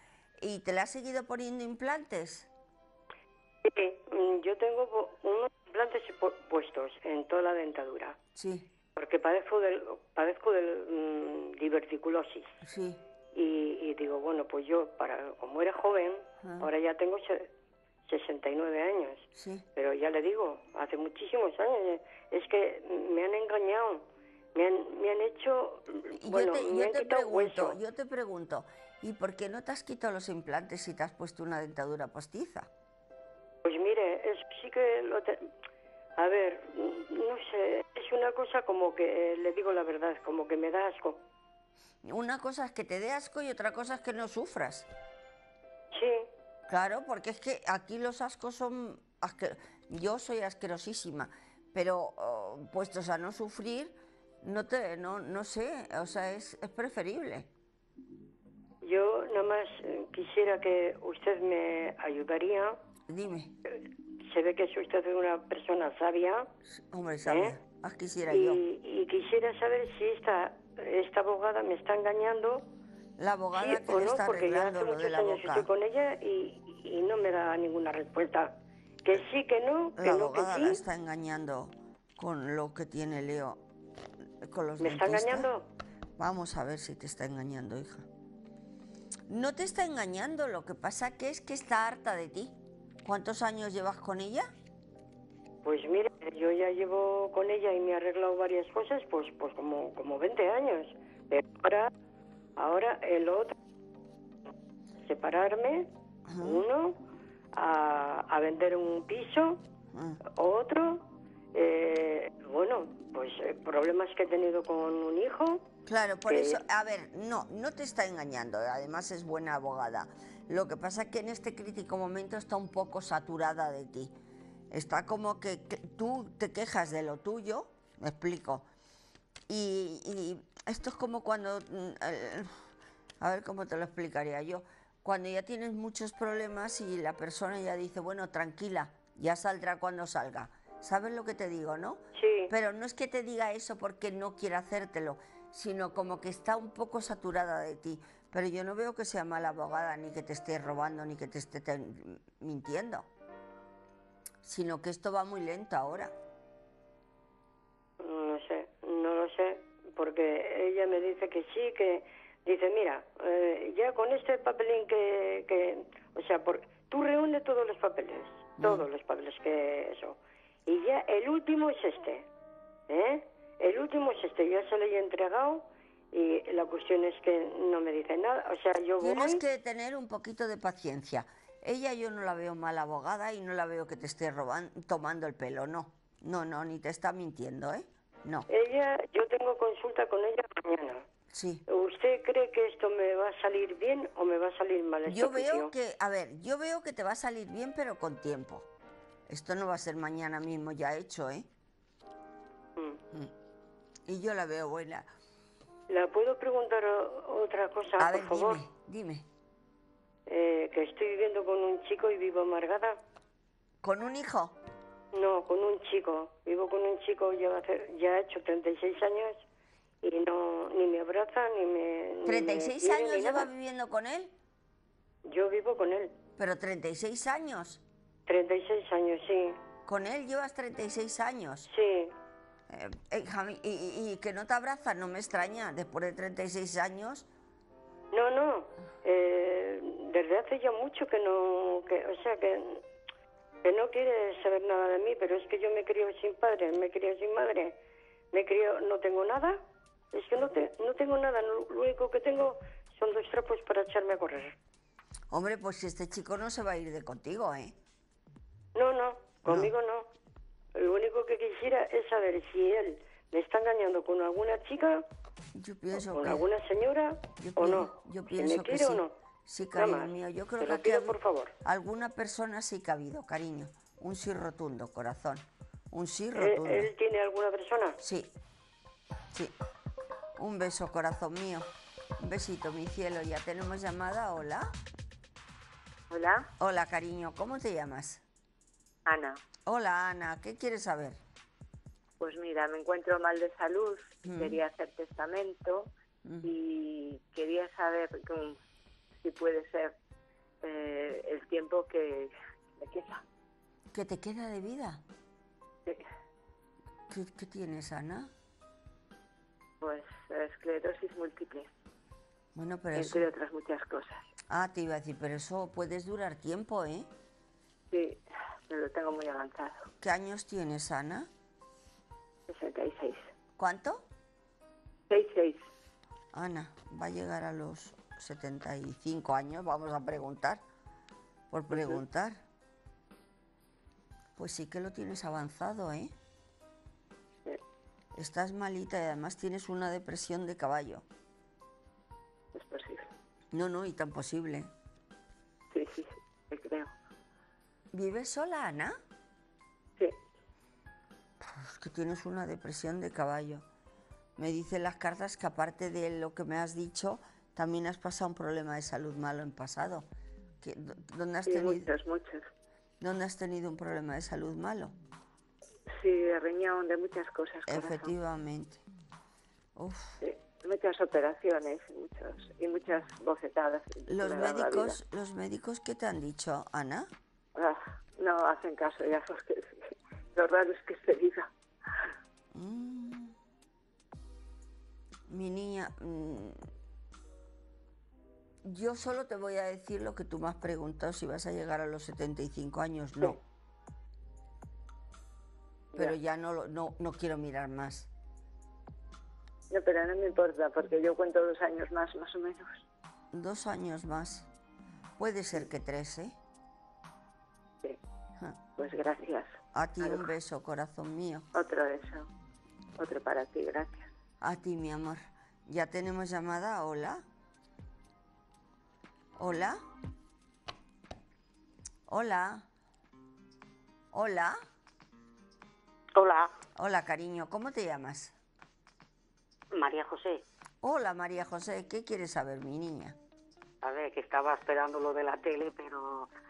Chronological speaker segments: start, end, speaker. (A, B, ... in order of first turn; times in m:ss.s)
0:00.4-0:02.5 A
0:03.6-0:08.2 B
0:08.3-0:08.7 A
0:09.0-0:12.5 B
0:12.6-0:13.0 A
0:13.3-0:17.5 B
0:16.4-0:16.7 A
0:18.0-0:27.8 B
0:19.3-0:19.6 A
0:26.1-0:32.7 A
0:33.6-0:35.5 B
0:36.2-0:41.2 B
0:42.0-0:44.9 A
0:45.9-0:46.3 B
0:46.7-0:57.5 A
0:58.8-1:02.8 B
1:03.1-1:03.5 A
1:03.7-1:06.5 B
1:06.7-1:08.6 A
1:07.2-1:07.6 B
1:08.3-1:12.7 B
1:13.2-1:15.7 A
1:13.6-1:20.8 B
1:20.0-1:23.6 A
1:24.4-1:25.5 A
1:24.8-1:25.7 B
1:26.2-1:28.0 A
1:29.3-1:34.5 A
1:35.6-1:41.9 B
1:42.6-1:43.5 B
1:45.0-1:47.0 B
1:46.3-1:46.6 A
1:47.5-1:49.6 B
1:49.9-1:50.2 A
1:50.2-1:55.6 B
1:55.8-2:04.1 A
1:56.3-1:56.6 B
2:04.7-2:08.7 A
2:09.5-2:12.6 A
2:13.2-2:33.1 A
2:22.2-2:22.5 B
2:34.4-2:36.1 A
2:38.0-2:52.2 B
2:48.6-2:48.9 A
2:52.9-2:59.4 B
2:59.0-3:08.5 A
3:08.5-3:11.0 B
3:11.3-3:11.6 A
3:11.7-3:15.7 B
3:15.1-3:18.6 A
3:19.3-3:21.5 A
3:24.0-3:25.1 A
3:25.9-3:28.6 B
3:28.0-3:29.2 A
3:30.3-3:33.0 B
3:33.8-3:34.6 A
3:35.1-3:39.4 B
3:40.0-3:43.5 B
3:42.2-3:44.3 A
3:45.3-3:46.1 B
3:46.4-3:47.8 A
3:48.2-3:49.6 B
3:49.8-3:51.7 A
3:51.7-3:52.1 B
3:52.7-3:57.3 A
3:58.1-4:02.8 B
4:03.6-4:07.8 B
4:08.3-4:09.6 B
4:10.1-4:14.5 B
4:15.3-4:17.7 A
4:18.7-4:20.1 B
4:19.5-4:19.7 A
4:20.7-4:25.0 B
4:25.5-4:26.4 A
4:25.9-4:29.1 B
4:27.4-4:36.9 A
4:29.8-4:31.5 B
4:36.4-4:38.0 B
4:38.0-4:38.3 A
4:40.4-4:44.7 A
4:46.1-4:46.4 C
4:46.6-4:48.2 A
4:49.0-4:49.4 C
4:49.6-4:51.2 A
4:52.2-4:55.9 C
4:54.2-4:54.6 A
4:56.2-4:56.5 A
4:56.4-4:58.6 C
4:59.2-4:59.9 C
5:00.6-5:03.2 C
5:03.9-5:05.0 A
5:07.1-5:08.3 A
5:09.8-5:11.7 C
5:12.5-5:13.2 A
5:12.9-5:14.2 C
5:14.5-5:17.1 A
5:17.9-5:19.9 C
5:20.0-5:21.3 A
5:22.5-5:23.3 C
5:23.6-5:24.0 A
5:25.1-5:25.7 C
5:26.3-5:30.6 A
5:31.5-5:32.4 A
5:34.4-5:36.1 A
5:38.1-5:41.0 A
5:42.5-5:43.1 C
5:43.5-5:44.7 A
5:45.7-5:46.9 C
5:47.9-5:49.0 A
5:51.4-5:53.6 A
5:54.4-6:00.0 A
6:00.6-6:01.9 A
6:01.4-6:02.4 C
6:03.0-6:04.9 A
6:05.9-6:08.1 C
6:07.7-6:08.8 A
6:09.8-6:10.2 A
6:10.2-6:15.0 C
6:14.1-6:17.1 A
6:17.6-6:21.5 C
6:22.5-6:23.3 A
6:25.3-6:26.6 A
6:28.6-6:33.4 A
6:35.9-6:38.1 A
6:39.7-6:42.8 C
6:43.3-6:44.5 A
6:45.2-6:46.4 A
6:48.8-6:50.3 C
6:49.7-6:51.4 A
6:51.5-6:52.2 C
6:53.0-6:54.1 C
6:54.4-6:57.2 A
6:59.4-6:59.8 A
7:02.1-7:02.7 A
7:04.1-7:04.5 A
7:06.1-7:06.5 D
7:06.8-7:08.3 A
7:09.7-7:10.4 D
7:10.8-7:13.2 A
7:13.8-7:16.3 D